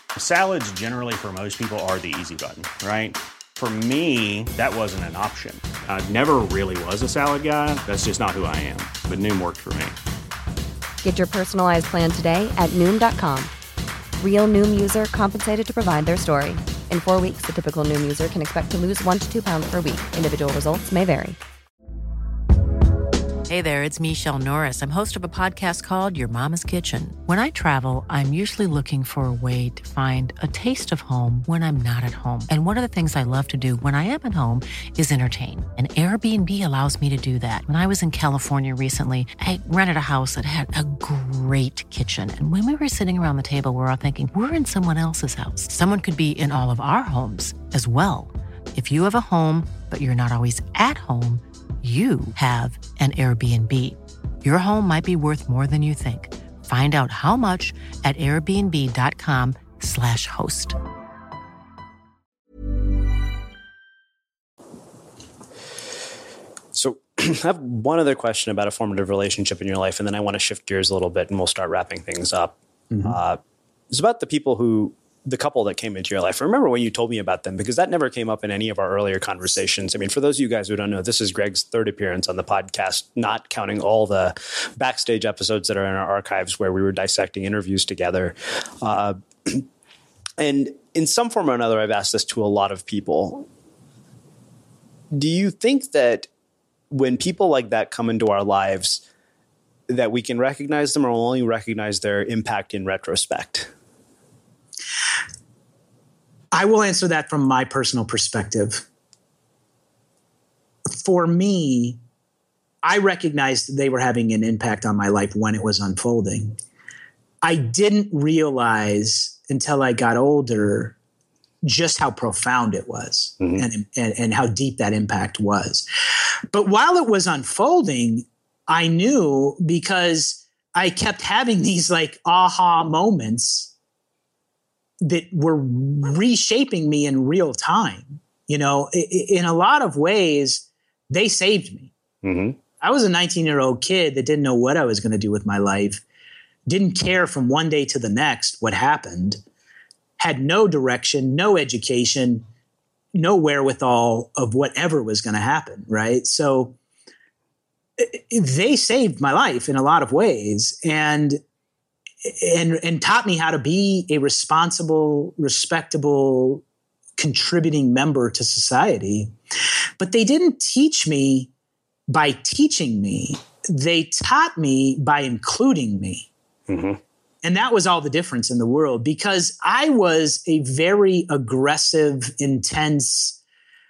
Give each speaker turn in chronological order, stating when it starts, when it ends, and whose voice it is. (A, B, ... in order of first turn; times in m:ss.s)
0:00.2-0:10.0 A
0:11.0-0:13.5 B
0:14.2-0:21.3 B
0:23.5-1:00.8 C
1:06.7-1:13.4 D
1:13.9-1:29.6 D
1:30.4-1:33.5 D
1:35.1-1:36.3 D
1:36.9-1:39.0 D
1:39.9-1:43.7 D
1:46.5-1:48.8 E
1:50.9-1:52.0 E
1:52.8-1:56.6 E
1:57.4-2:00.9 E
2:01.6-2:05.9 E
2:06.5-2:13.7 E
2:15.0-2:21.9 E
2:22.2-2:22.6 D
2:22.8-2:26.0 E
2:26.7-2:29.4 E
2:30.2-2:32.4 E
2:33.1-2:36.8 E
2:38.0-2:41.4 E
2:42.2-2:46.6 E
2:47.2-2:49.3 E
2:50.0-2:51.5 E
2:52.1-2:56.3 E
2:56.7-2:57.0 D
2:57.4-3:03.4 E